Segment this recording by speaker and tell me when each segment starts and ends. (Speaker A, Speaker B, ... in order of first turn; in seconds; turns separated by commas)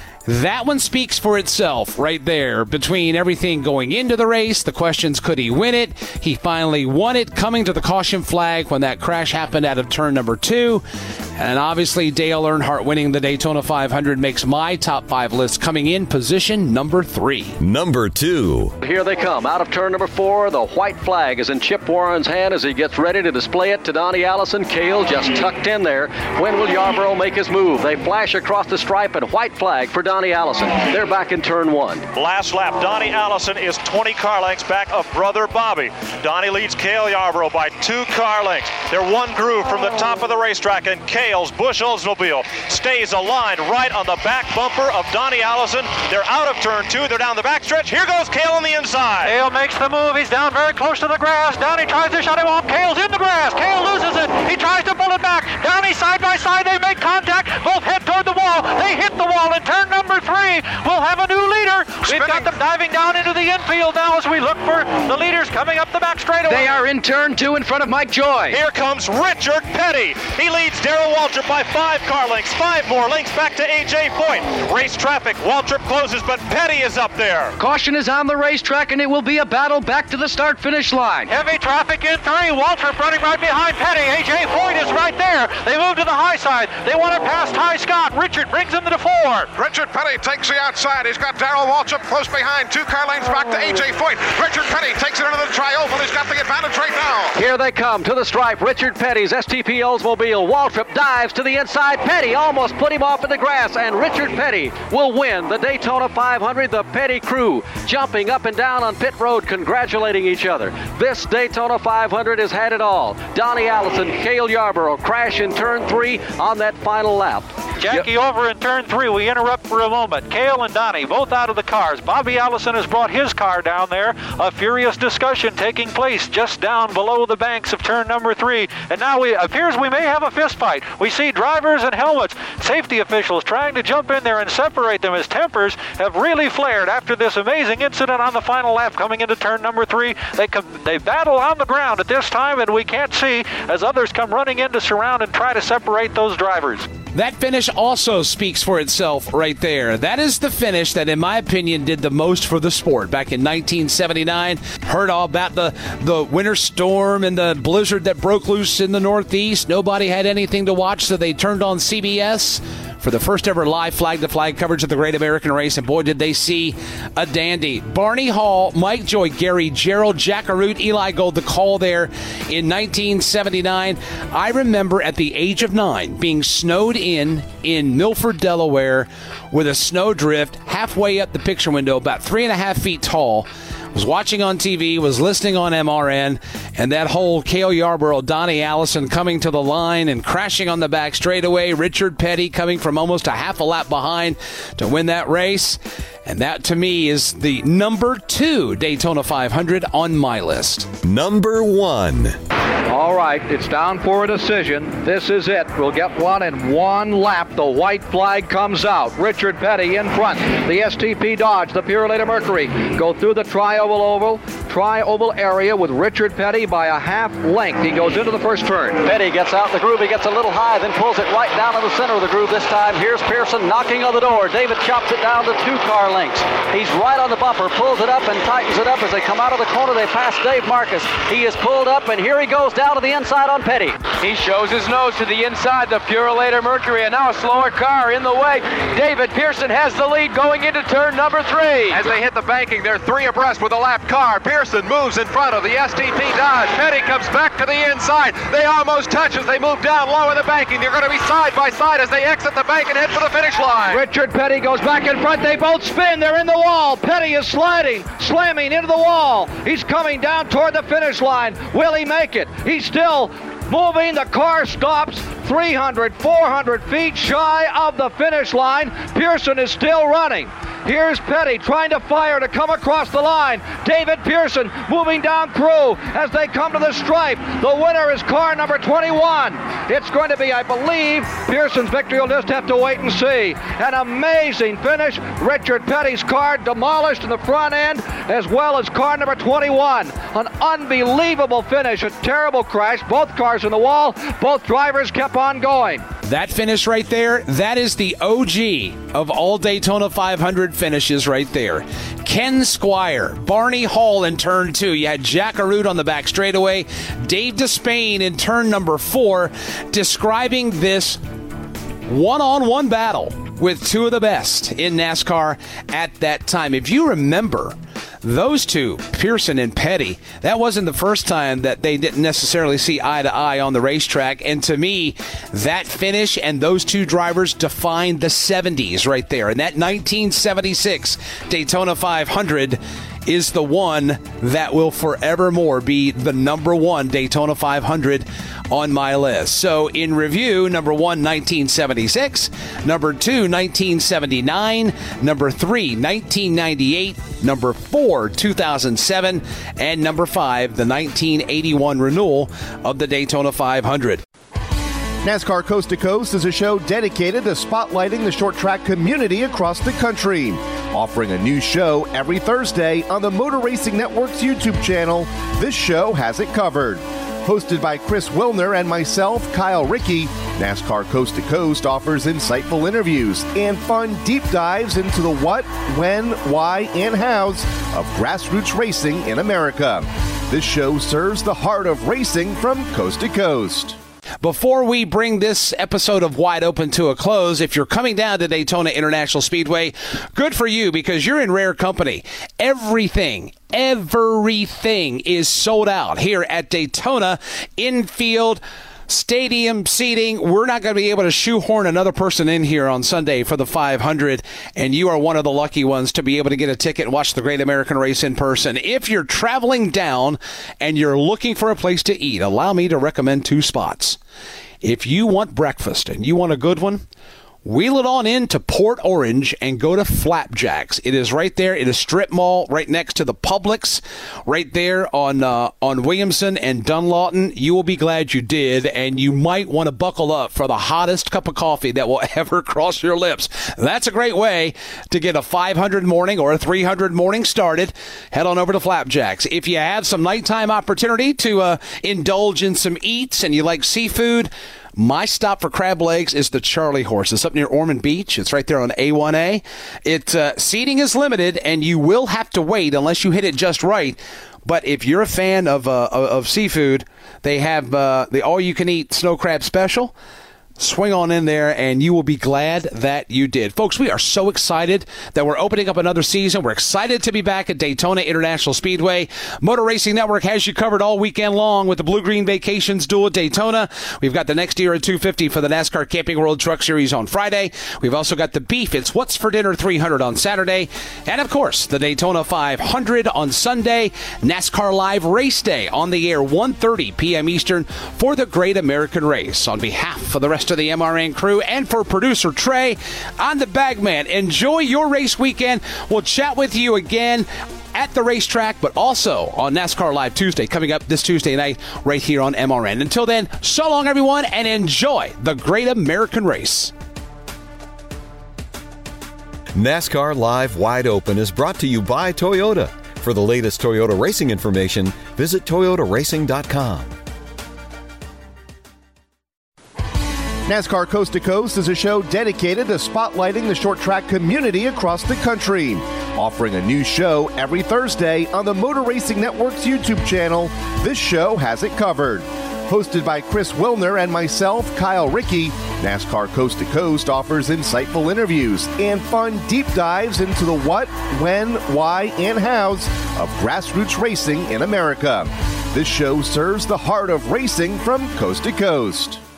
Speaker A: 0.3-10.8, Speaker A: 11.4-17.6, Speaker B: 17.6-18.7, Speaker C: 18.8-32.1, Speaker D: 32.1-49.3, Speaker E: 49.2-66.9, Speaker F: 62.1-62.4, Speaker C: 66.5-68.6, Speaker D: 68.5-77.5, Speaker C: 77.6-81.3, Speaker E: 81.3-89.5, Speaker F: 89.6-97.4, Speaker C: 97.4-118.1, Speaker E: 117.8-146.9, Speaker A: 147.1-200.9, Speaker B: 201.0-202.3, Speaker G: 202.9-219.1, Speaker C: 219.0-234.0, Speaker H: 234.1-242.1, Speaker F: 241.9-254.0, Speaker G: 253.9-296.0, Speaker A: 296.2-311.2, Speaker A: 312.1-354.2, Speaker I: 355.2-384.0, Speaker A: 384.4-414.2, Speaker A: 414.8-417.1, Speaker A: 417.6-460.1, Speaker A: 460.8-506.9, Speaker B: 509.8-517.1, Speaker I: 520.7-549.4